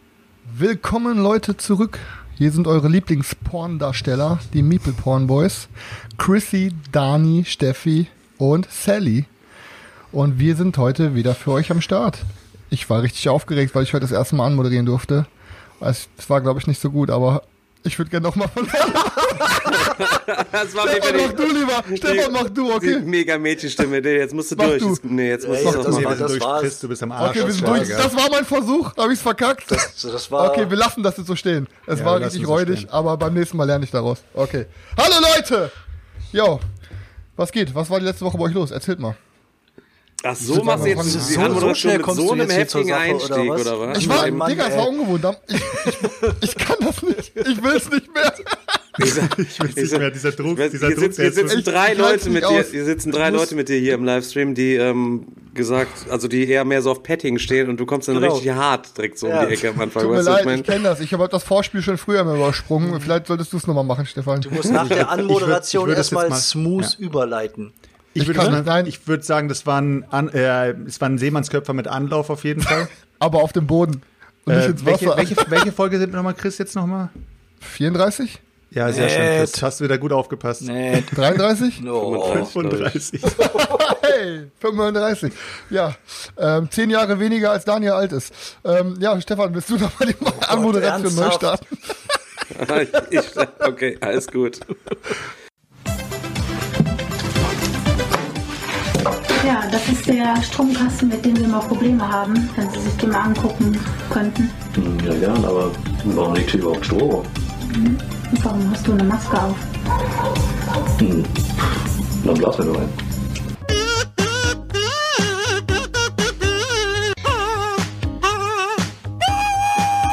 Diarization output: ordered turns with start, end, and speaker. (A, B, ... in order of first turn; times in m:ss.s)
0:00.5-0:09.3 A
0:10.1-0:15.3 A
0:15.8-0:20.2 A
0:19.7-0:26.3 B
0:20.8-0:23.1 A
0:24.6-0:25.0 A
0:25.4-0:28.0 C
0:25.6-0:28.1 D
0:27.2-0:35.7 A
0:29.7-0:30.7 C
0:31.9-0:32.9 D
0:36.3-0:36.6 A
0:37.4-0:39.2 A
0:40.2-0:44.4 B
0:40.4-0:41.7 A
0:40.4-0:44.9 C
0:41.1-0:41.6 D
0:43.9-0:48.8 A
0:45.8-0:46.4 C
0:49.0-0:51.6 D
0:49.0-1:00.7 B
0:51.5-0:53.5 A
0:58.1-0:58.5 C
0:59.2-0:59.8 C
1:00.0-1:04.8 A
1:04.4-1:07.7 C
1:04.8-1:07.0 D
1:08.1-1:12.9 D
1:08.2-1:08.9 A
1:13.2-1:15.6 A
1:14.5-1:17.1 D
1:17.6-1:18.4 A
1:18.7-1:21.3 D
1:18.9-1:19.6 C
1:20.6-1:22.5 C
1:21.1-1:21.8 A
1:22.0-1:23.0 B
1:22.2-1:23.6 D
1:23.3-1:31.9 A
1:30.4-1:31.6 C
1:32.5-1:35.1 B
1:39.4-1:44.6 E
1:44.8-1:47.3 F
1:47.7-1:49.6 E
1:51.0-1:51.4 F
1:52.2-1:53.0 F